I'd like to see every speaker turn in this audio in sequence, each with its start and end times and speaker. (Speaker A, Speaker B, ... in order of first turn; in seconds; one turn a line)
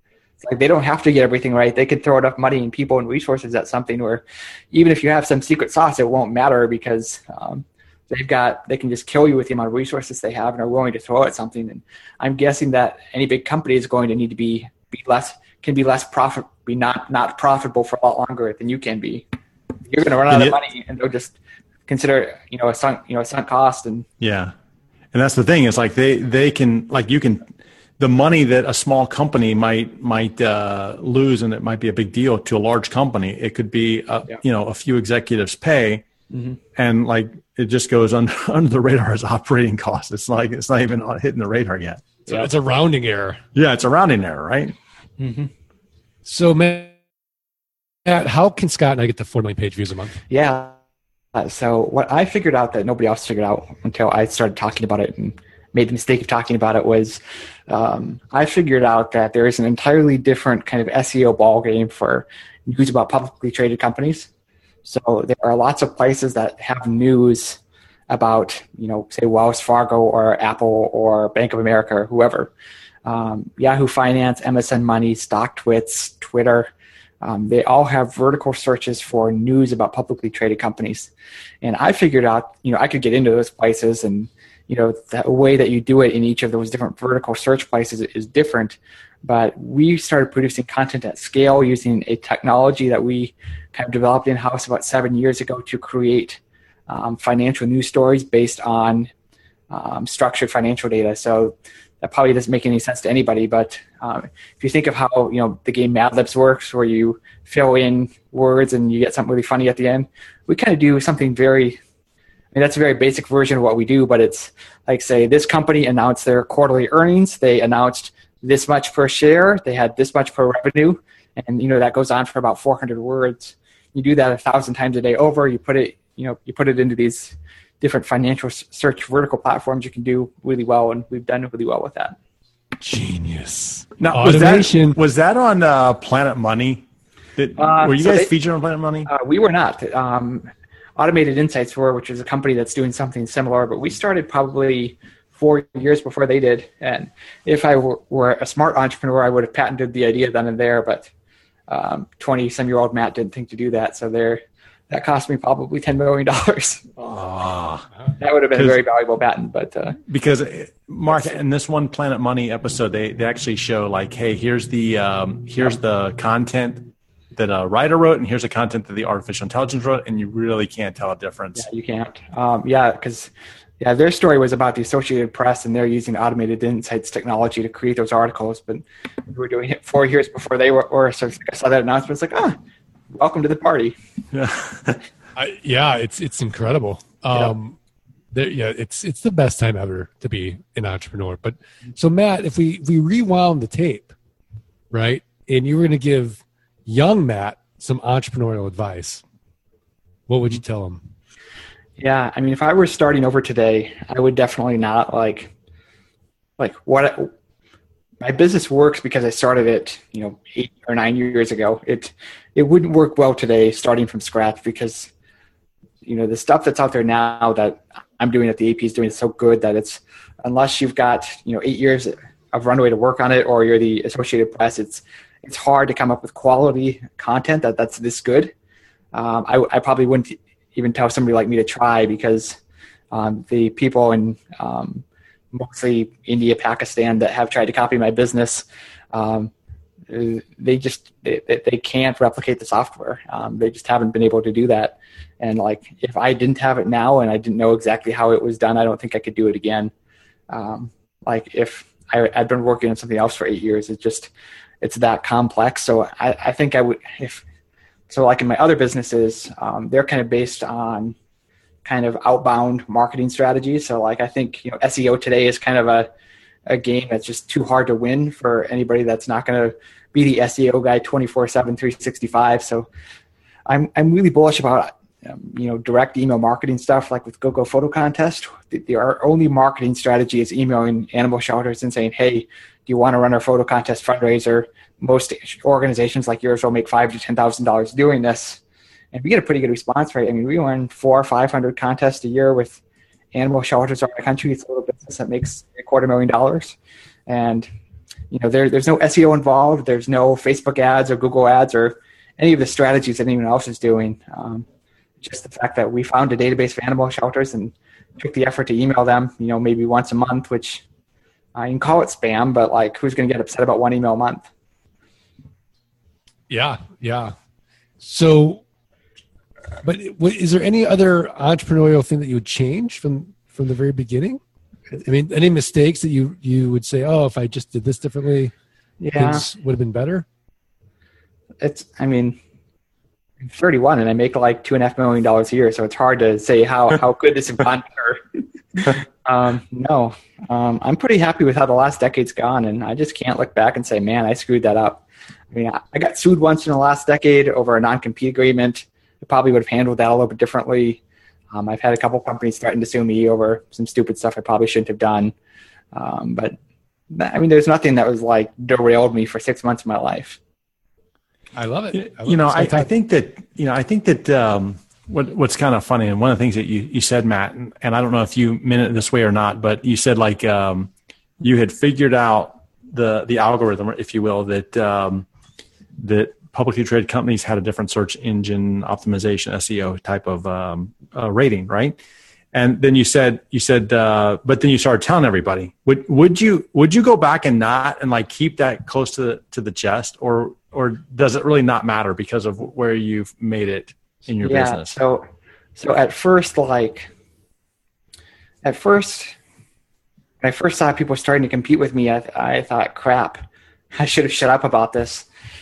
Speaker A: 0.4-19.2
Speaker A: 19.9-21.4
Speaker B: 20.3-20.6
Speaker A: 21.9-24.1
Speaker B: 24.2-24.5
Speaker B: 25.1-36.0
Speaker A: 36.3-36.6
Speaker B: 36.8-42.2
Speaker C: 42.3-43.4
Speaker B: 43.5-44.8
Speaker A: 45.2-45.5
Speaker C: 46.3-46.9
Speaker C: 48.0-50.2
Speaker A: 50.3-50.8
Speaker A: 51.4-64.3
Speaker A: 64.8-72.5
Speaker A: 73.0-76.7
Speaker A: 77.2-99.1
Speaker A: 99.7-111.8
Speaker A: 112.5-132.2
Speaker C: 132.8-135.0
Speaker B: 134.0-136.9
Speaker B: 137.4-139.1
Speaker A: 137.6-138.3
Speaker A: 139.1-151.1
Speaker A: 151.7-156.9
Speaker B: 157.0-157.9
Speaker A: 158.2-160.0
Speaker B: 158.6-158.8
Speaker B: 160.1-171.7
Speaker A: 171.6-182.6
Speaker A: 183.1-183.9
Speaker B: 184.3-185.0
Speaker C: 185.4-187.8
Speaker C: 188.3-194.1
Speaker C: 194.9-199.2
Speaker C: 200.3-201.0
Speaker A: 202.0-205.5
Speaker A: 206.6-207.3
Speaker A: 208.2-215.1
Speaker A: 216.1-228.5
Speaker A: 229.1-232.6
Speaker A: 233.1-239.5
Speaker A: 240.1-249.9
Speaker A: 250.5-254.3
Speaker A: 254.8-257.4
Speaker A: 258.1-261.1
Speaker A: 261.8-266.1
Speaker A: 266.7-272.9
Speaker A: 273.7-288.6
Speaker A: 289.1-292.8
Speaker A: 293.3-296.8
Speaker A: 297.3-297.7
Speaker A: 298.3-304.7
Speaker A: 305.2-310.8
Speaker A: 311.6-314.4
Speaker C: 316.5-317.3
Speaker C: 318.0-318.6
Speaker C: 319.8-324.4
Speaker C: 325.0-328.5
Speaker A: 329.0-329.4
Speaker C: 329.1-330.3
Speaker A: 331.6-332.4
Speaker A: 333.4-338.2
Speaker A: 338.8-351.0
Speaker A: 351.5-355.3
Speaker A: 355.9-356.6
Speaker A: 357.1-360.4
Speaker C: 361.6-362.9
Speaker B: 361.9-375.3
Speaker B: 376.0-382.0
Speaker B: 382.5-395.0
Speaker A: 394.4-395.2
Speaker A: 395.8-397.1
Speaker A: 398.6-399.4
Speaker A: 400.4-403.4
Speaker A: 403.9-405.3